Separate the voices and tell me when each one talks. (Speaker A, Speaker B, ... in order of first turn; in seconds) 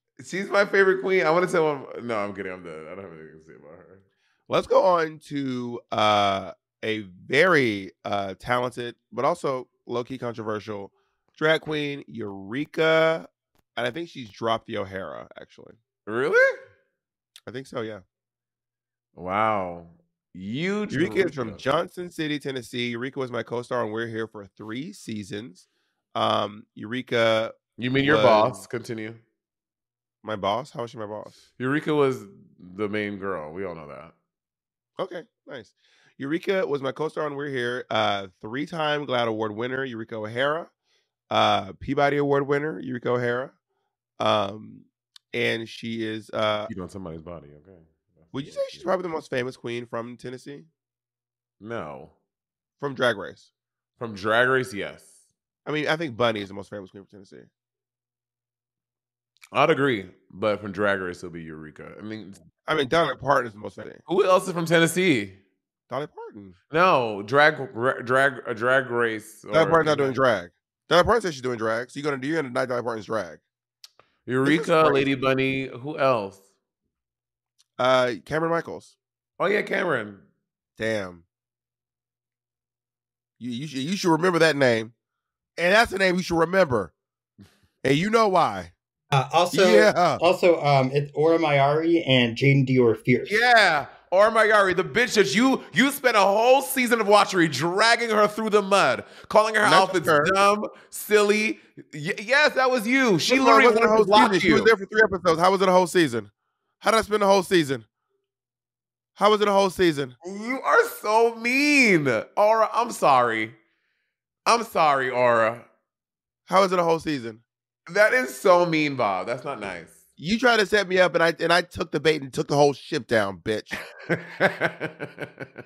Speaker A: 0.2-4.0, 16.1-16.6, 19.1-21.6, 27.8-29.2, 31.6-34.1, 46.7-48.8, 51.6-52.1, 54.0-55.1, 59.5-62.4, 64.1-65.4, 66.7-70.1, 74.2-76.4, 79.4-80.2, 93.2-104.7, 110.2-113.6, 114.5-115.7, 117.9-120.0, 124.0-125.5
Speaker B: 4.5-15.8, 17.4-18.0, 20.9-28.6, 30.2-31.4, 35.0-40.7, 41.3-43.5, 44.2-46.7, 48.3-50.7, 52.8-53.5, 55.6-57.5, 62.6-64.0, 65.9-66.5, 69.5-73.4, 74.4-75.1, 77.8-78.9, 80.8-81.2, 83.4-84.9, 85.6-86.9, 87.8-88.7, 89.5-90.2, 99.6-100.3, 103.2-107.8, 109.2-110.2, 116.5-117.4, 120.2-123.8
Speaker C: 89.1-93.3